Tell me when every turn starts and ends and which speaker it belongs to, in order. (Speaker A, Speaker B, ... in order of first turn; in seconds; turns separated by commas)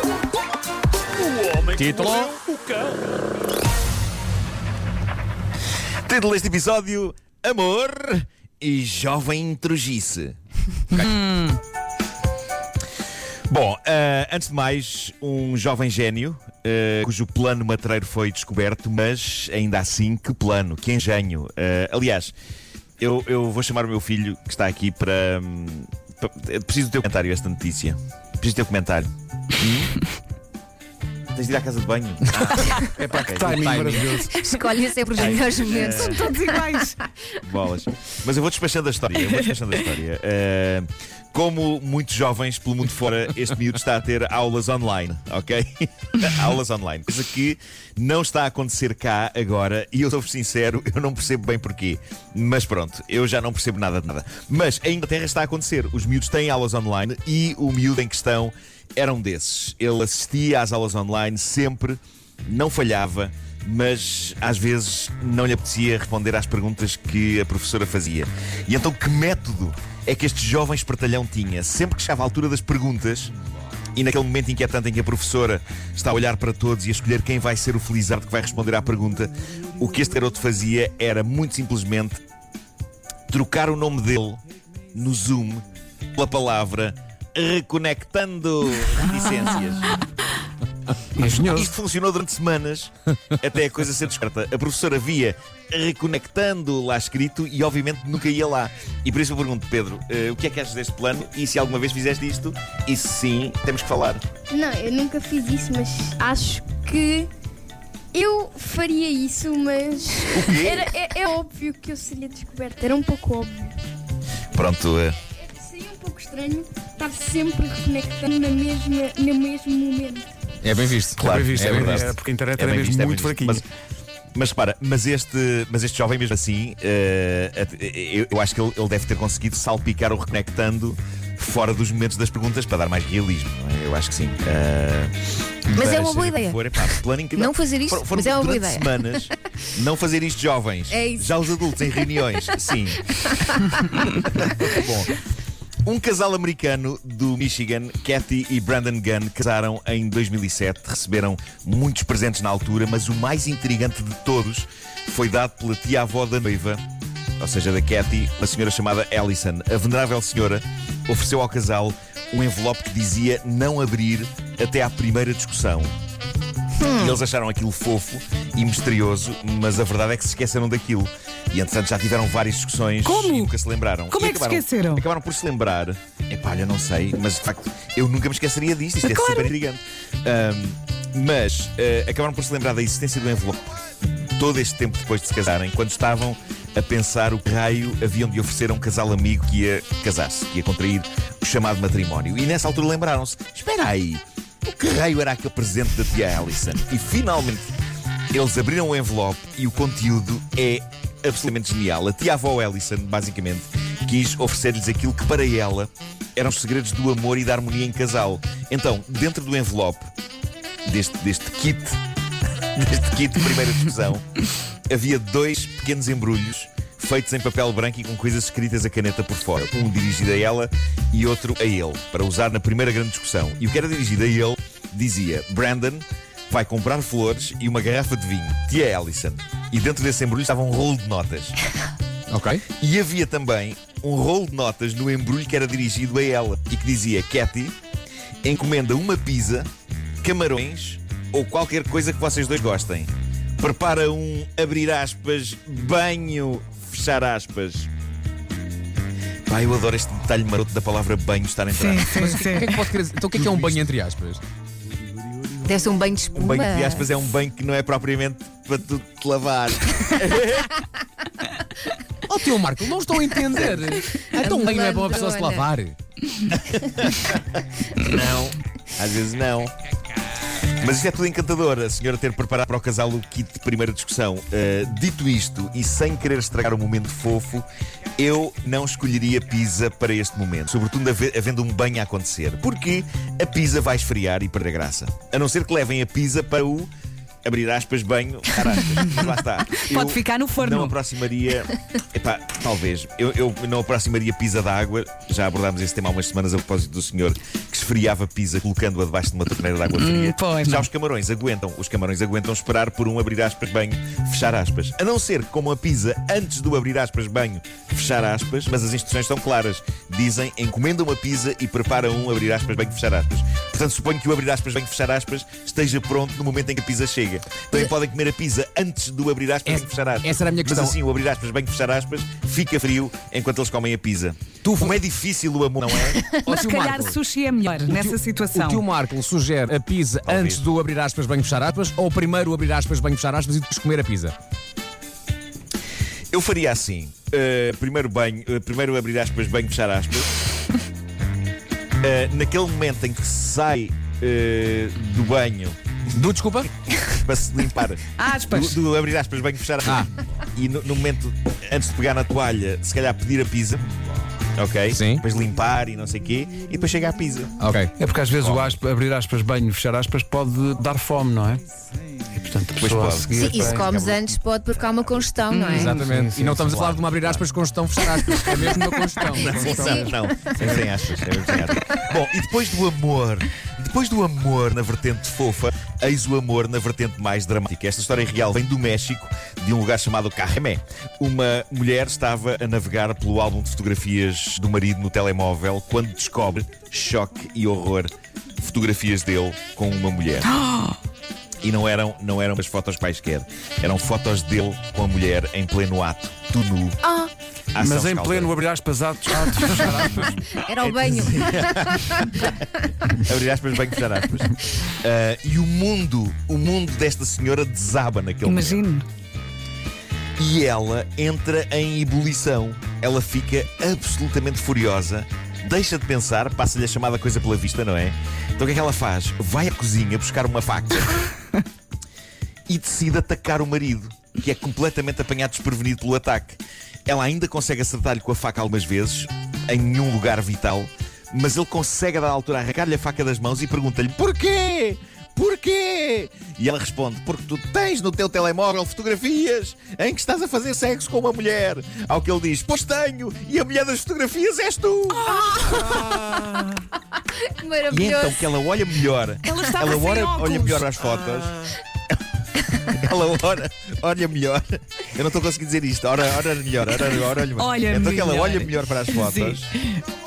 Speaker A: 1.8-2.4, Speaker B: 6.1-10.4, Speaker B: 10.9-11.3, Speaker C: 11.0-11.6, Speaker B: 13.5-22.4, Speaker B: 23.0-30.0, Speaker B: 31.3-34.1, Speaker D: 32.8-34.3, Speaker A: 33.5-34.0, Speaker E: 34.2-37.0, Speaker B: 35.1-36.4, Speaker C: 35.2-37.0, Speaker B: 37.4-73.3, Speaker B: 74.0-82.2, Speaker B: 83.3-84.4, Speaker B: 84.9-85.6, Speaker B: 86.2-90.0, Speaker D: 91.2-91.7, Speaker B: 91.2-104.2, Speaker F: 104.5-107.3, Speaker F: 108.1-113.8, Speaker B: 110.3-110.9, Speaker B: 114.5-115.2, Speaker F: 115.5-120.3, Speaker A: 120.6-122.1, Speaker B: 121.2-123.6, Speaker D: 121.2-123.6, Speaker B: 124.3-135.1, Speaker B: 135.7-143.3, Speaker E: 135.7-139.3, Speaker E: 140.9-142.2, Speaker E: 143.1-144.2, Speaker B: 144.3-145.2, Speaker B: 145.8-156.8, Speaker B: 157.4-165.9, Speaker E: 166.8-167.2, Speaker B: 166.9-197.7, Speaker C: 173.0-173.5, Speaker C: 174.1-175.1, Speaker C: 179.0-179.5, Speaker B: 198.3-210.1, Speaker B: 210.9-212.0, Speaker B: 212.7-231.6, Speaker A: 232.3-232.6, Speaker B: 232.8-237.8, Speaker B: 238.4-239.7, Speaker B: 240.2-247.9, Speaker B: 249.5-252.4, Speaker C: 251.7-252.8, Speaker A: 252.2-254.4, Speaker B: 253.3-253.8, Speaker E: 255.6-257.1, Speaker B: 256.3-260.9, Speaker A: 262.3-266.0, Speaker E: 264.3-265.7, Speaker B: 266.5-269.7, Speaker B: 270.8-277.7, Speaker B: 278.2-286.9, Speaker B: 287.4-326.3, Speaker C: 289.7-291.0, Speaker C: 299.9-300.9, Speaker A: 319.6-321.0, Speaker A: 324.6-325.0, Speaker C: 326.4-328.8, Speaker A: 326.5-327.2, Speaker A: 327.9-334.4, Speaker B: 330.2-330.6, Speaker B: 336.3-340.3, Speaker B: 342.0-345.8, Speaker A: 346.1-346.7, Speaker B: 346.9-353.8, Speaker C: 348.2-348.8, Speaker B: 354.6-357.7, Speaker A: 354.9-355.2, Speaker A: 357.6-357.9, Speaker D: 358.0-361.6, Speaker B: 358.4-358.8, Speaker D: 362.4-363.9, Speaker B: 362.8-365.2, Speaker E: 363.4-366.0, Speaker A: 365.5-369.6, Speaker D: 366.0-366.6, Speaker B: 366.3-367.5, Speaker B: 368.3-368.8, Speaker B: 369.4-390.6, Speaker D: 369.4-370.1, Speaker E: 369.5-370.6, Speaker C: 390.5-391.0, Speaker B: 391.6-397.0, Speaker E: 397.1-397.3, Speaker B: 397.7-398.6, Speaker D: 397.8-400.4, Speaker B: 399.3-408.9, Speaker E: 400.6-402.4, Speaker C: 408.4-409.1, Speaker B: 410.4-421.4, Speaker B: 422.7-446.8, Speaker E: 445.5-446.0, Speaker E: 447.4-448.5, Speaker B: 447.9-451.8, Speaker C: 449.4-451.5, Speaker B: 452.7-459.7, Speaker C: 457.6-460.0